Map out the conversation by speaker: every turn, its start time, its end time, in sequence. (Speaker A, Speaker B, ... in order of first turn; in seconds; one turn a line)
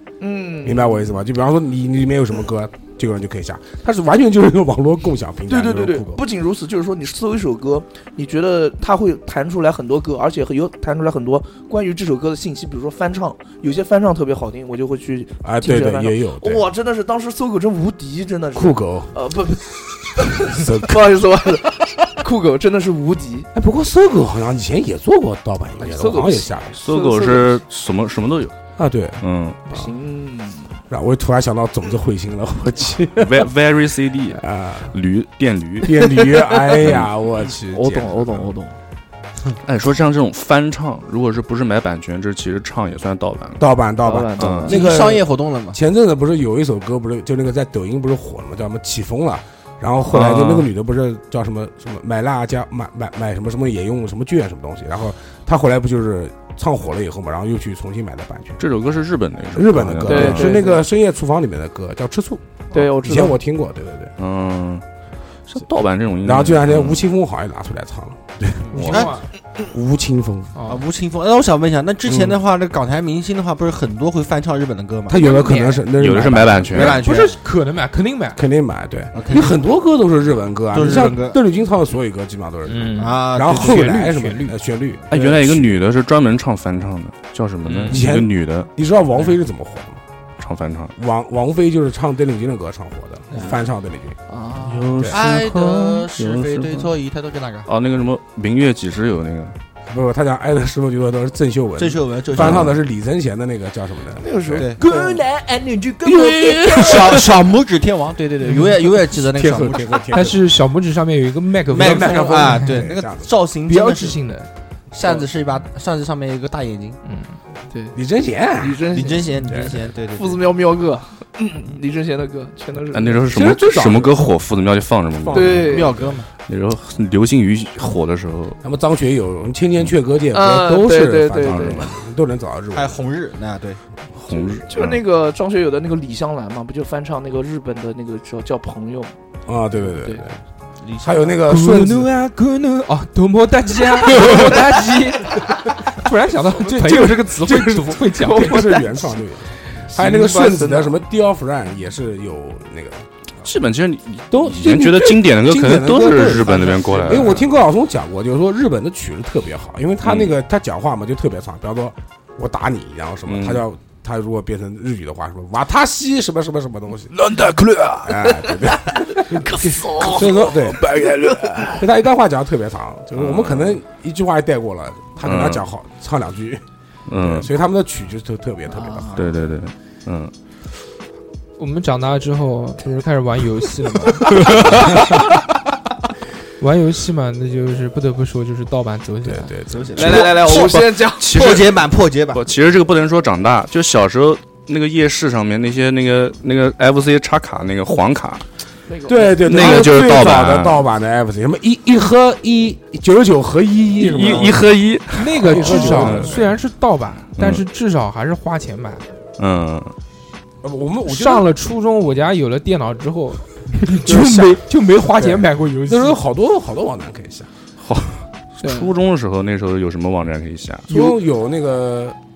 Speaker A: 0.2-1.1
Speaker B: 0.6-6.2
Speaker A: 5.5-23.5
Speaker B: 15.4-16.7
Speaker B: 18.5-19.1
Speaker B: 20.5-21.1
Speaker B: 23.5-26.8
Speaker A: 25.8-27.6
Speaker C: 26.8-28.5
Speaker B: 28.8-29.9
Speaker C: 29.2-29.6
Speaker A: 29.7-30.8
Speaker B: 30.9-33.5
Speaker C: 33.2-35.9
Speaker B: 34.3-35.0
Speaker B: 35.8-38.5
Speaker C: 36.8-37.1
Speaker A: 37.7-38.8
Speaker C: 39.6-43.6
Speaker B: 43.6-58.6
Speaker A: 44.0-44.8
Speaker C: 44.4-44.7
Speaker D: 44.7-45.8
Speaker C: 50.1-50.7
Speaker C: 58.6-60.6
Speaker B: 59.5-64.1
Speaker A: 60.0-60.9
Speaker A: 62.7-63.4
Speaker C: 64.2-64.8
Speaker C: 65.5-67.1
Speaker B: 66.2-69.1
Speaker D: 68.7-69.2
Speaker E: 68.7-69.3
Speaker C: 68.8-69.0
Speaker B: 69.7-70.5
Speaker E: 70.5-70.8
Speaker D: 70.7-75.2
Speaker B: 72.1-72.4
Speaker B: 75.1-77.0
Speaker E: 75.2-75.8
Speaker C: 76.0-77.0
Speaker D: 76.7-77.4
Speaker E: 76.8-78.4
Speaker B: 78.4-85.7
Speaker D: 79.1-79.6
Speaker D: 80.7-81.4
Speaker E: 82.7-84.6
Speaker D: 83.0-84.0
Speaker C: 85.1-88.7
Speaker E: 87.7-88.0
Speaker B: 87.9-90.0
Speaker C: 90.4-91.0
Speaker B: 91.0-94.2
Speaker A: 94.3-94.9
Speaker C: 94.6-96.9
Speaker B: 95.0-95.2
Speaker D: 95.1-97.7
Speaker C: 97.7-99.5
Speaker B: 99.9-104.7
Speaker D: 101.8-102.8
Speaker C: 102.3-102.8
Speaker A: 104.2-105.3
Speaker D: 104.5-104.8
Speaker E: 104.8-106.4
Speaker B: 106.1-107.3
Speaker A: 106.2-106.6
Speaker D: 106.7-110.1
Speaker E: 108.5-108.7
Speaker B: 109.2-110.5
Speaker E: 110.1-112.8
Speaker D: 111.7-114.2
Speaker B: 111.7-113.3
Speaker E: 113.7-114.5
Speaker D: 114.9-117.0
Speaker E: 117.0-117.4
Speaker A: 117.7-118.0
Speaker B: 118.0-118.9
Speaker A: 118.6-119.4
Speaker D: 118.9-120.4
Speaker B: 119.5-119.9
Speaker A: 120.1-123.3
Speaker C: 122.9-125.8
Speaker B: 123.3-124.3
Speaker B: 125.2-126.1
Speaker A: 125.3-126.0
Speaker D: 125.6-126.3
Speaker C: 126.5-128.6
Speaker B: 128.6-133.0
Speaker A: 130.3-131.9
Speaker C: 131.4-131.9
Speaker D: 132.7-133.8
Speaker C: 134.2-135.0
Speaker A: 134.3-139.1
Speaker B: 139.5-140.4
Speaker D: 140.8-141.4
Speaker B: 141.0-142.1
Speaker E: 141.4-148.8
Speaker B: 144.2-144.5
Speaker B: 146.6-153.1
Speaker A: 148.2-149.0
Speaker A: 149.9-150.9
Speaker C: 153.4-157.5
Speaker B: 154.3-167.1
Speaker C: 160.0-160.4
Speaker C: 163.3-163.6
Speaker A: 167.1-171.9
Speaker B: 168.0-170.9
Speaker B: 171.8-176.6
Speaker C: 173.2-173.8
Speaker C: 175.2-175.7
Speaker C: 177.1-177.5
Speaker B: 177.2-179.2
Speaker A: 178.7-179.2
Speaker C: 179.2-180.3
Speaker E: 181.6-185.0
Speaker C: 184.3-184.9
Speaker E: 186.6-189.5
Speaker B: 189.2-190.5
Speaker D: 189.7-192.5
Speaker A: 189.9-191.4
Speaker C: 190.5-198.4
Speaker A: 198.9-200.2
Speaker B: 199.1-204.7
Speaker C: 199.4-200.8
Speaker C: 204.0-206.4
Speaker E: 205.1-209.1
Speaker B: 205.3-206.4
Speaker C: 207.4-207.6
Speaker C: 209.4-209.9
Speaker B: 210.6-211.5
Speaker E: 211.1-216.2
Speaker B: 214.0-217.5
Speaker C: 217.8-220.9
Speaker A: 218.6-218.9
Speaker B: 220.9-222.2